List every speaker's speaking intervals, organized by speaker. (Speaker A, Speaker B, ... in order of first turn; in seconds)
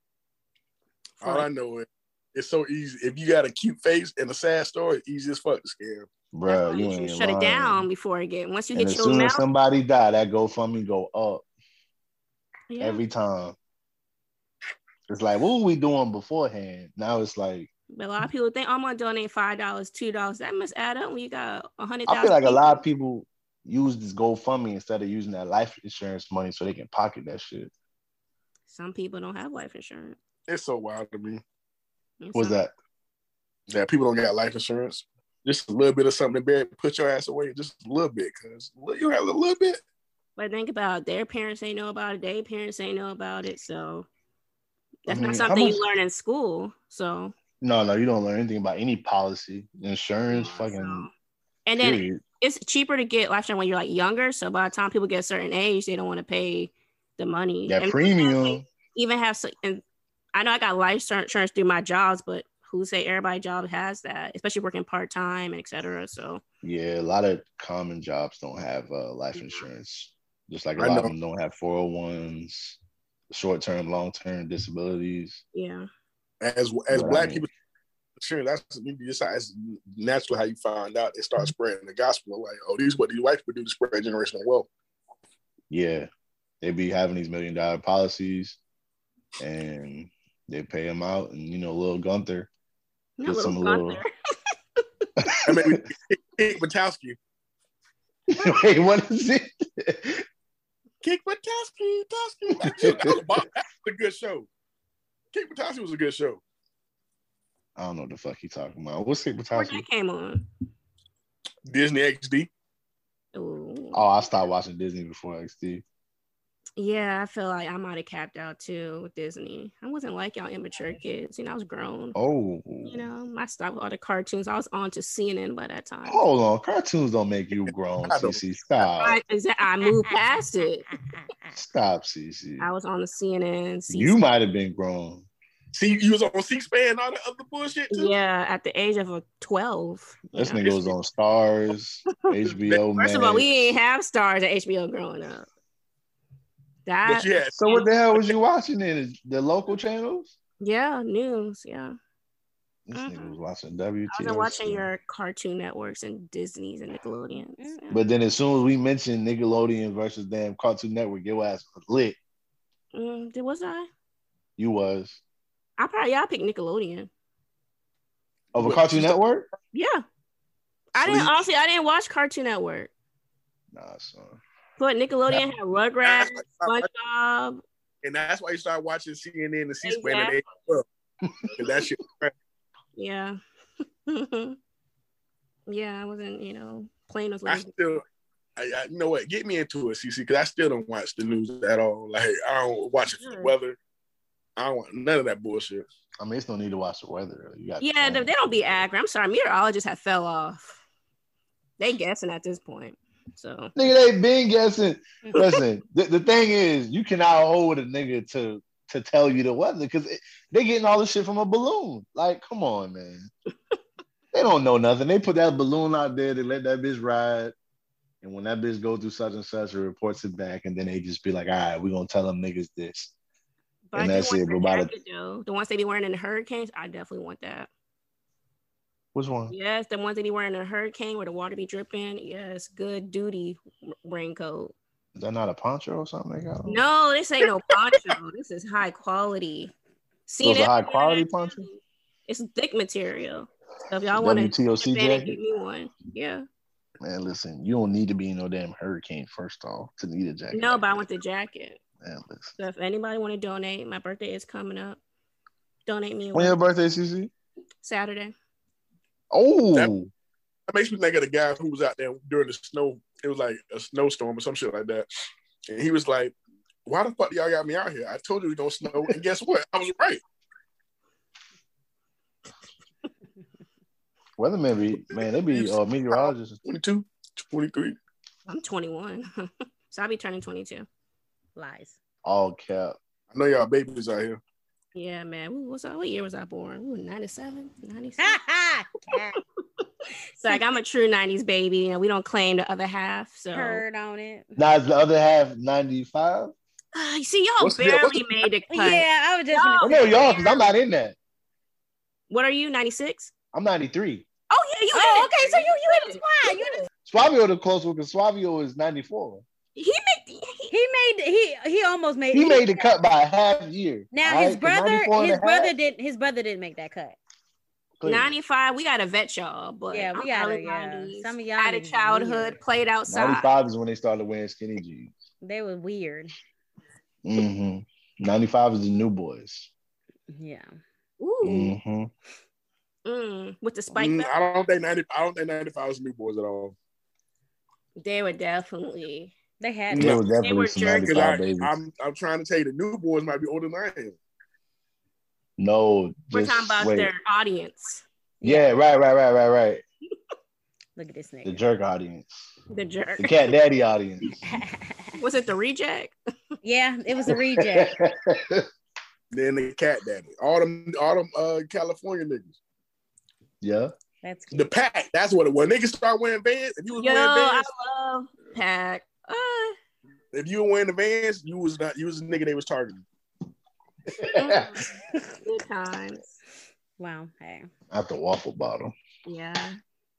Speaker A: 1.2-1.5, 6.5-9.4, 12.7-13.0, 17.9-22.8, 28.7-30.2, 32.2-32.6, 40.4-44.1, 45.0-47.3, 50.3-51.1, 51.6-59.8, 60.3-66.4, 69.3-69.6, 75.5-75.9, 93.2-94.1, 109.5-110.5, 113.3-114.1, 116.8-122.2, 122.8-126.2, 129.0-130.9, 132.6-134.2, 137.9-140.9, 142.9-145.5, 146.8-147.3, 150.6-151.9, 152.9-153.3, 154.1-158.0, 162.9-163.9, 165.8-167.1, 169.7-170.0, 170.9-172.9, 174.8-177.6, 179.8-180.4, 182.9-183.4, 184.1-184.6, 185.7-187.7, 193.2-193.5, 197.8-200.8, 201.8-203.7, 205.3-205.6, 223.9-227.7, 229.5-234.7, 236.7-239.7, 240.3-246.4, 250.5-251.8, 252.6-255.0, 255.8-256.6, 257.8-258.3, 278.5-280.9, 284.9-288.4, 290.4-293.8, 296.9-300.6, 302.3-303.3, 304.5-306.8, 309.8-310.7, 318.0-323.5, 331.2-331.8, 333.0-334.3, 338.0-339.3, 340.4-341.2, 346.3-348.0, 352.7-353.5, 355.2-356.1, 367.0-369.8, 374.3-374.9, 375.4-376.3, 379.2-379.8
Speaker B: 1.2-6.1, 30.5-31.4, 33.7-39.8, 70.8-71.1, 76.4-77.5, 78.2-84.7, 95.4-97.2, 101.0-104.5, 105.3-106.4, 111.7-112.5, 128.0-128.4, 135.7-138.1, 142.5-142.8, 147.1-148.3, 168.6-169.2, 176.0-176.8, 178.0-180.8, 181.6-182.3, 187.4-188.0, 188.6-193.8, 194.6-195.8, 260.7-265.1, 265.7-266.3, 266.9-270.2, 275.5-278.0, 283.3-284.4, 297.6-298.4, 333.9-336.8, 339.9-340.2, 341.1-344.2, 359.3-362.6, 364.5-367.7, 370.3-373.0
Speaker C: 6.3-7.9, 8.7-11.4, 12.8-13.6, 15.1-17.7, 22.1-27.7, 32.3-32.7, 45.1-45.8, 47.6-51.1, 51.8-52.2, 57.7-58.6, 66.6-72.8, 73.3-75.4, 76.9-77.5, 85.7-86.1, 86.6-88.6, 89.4-92.5, 93.2-94.0, 95.2-95.8, 98.3-100.2, 102.6-103.2, 107.8-109.8, 113.9-115.8, 122.2-123.1, 126.0-129.2, 131.5-132.7, 133.9-135.3, 140.3-143.7, 147.5-150.3, 152.9-154.9, 157.9-162.2, 164.6-165.2, 168.5-169.5, 171.0-171.4, 173.7-174.4, 181.2-181.7, 196.2-198.8, 203.8-213.3, 214.3-217.5, 218.2-223.1, 223.9-224.9, 229.1-229.5, 235.1-236.8, 240.4-241.7, 244.1-245.4, 247.0-251.0, 252.0-252.6, 256.3-257.3, 259.3-260.1, 274.4-276.6, 282.2-282.9, 294.6-296.5, 299.8-301.1, 303.5-304.3, 307.1-309.4, 312.3-315.7, 318.0-318.3, 323.1-325.1, 327.2-329.7, 331.4-332.1, 339.9-341.8, 345.6-347.1, 348.4-349.8, 351.4-352.5, 353.2-354.4, 357.3-358.7, 363.6-363.9, 374.1-374.8, 377.9-378.9
Speaker D: 157.6-157.8, 281.6-281.9, 288.2-289.4, 293.5-294.6, 298.7-300.7, 304.9-306.9, 310.7-312.9, 314.1-317.1, 319.9-322.6, 325.4-326.3, 330.3-330.7, 339.6-340.2, 348.4-348.6, 350.9-351.6, 354.4-355.1, 356.6-357.9, 364.2-364.7, 377.0-377.7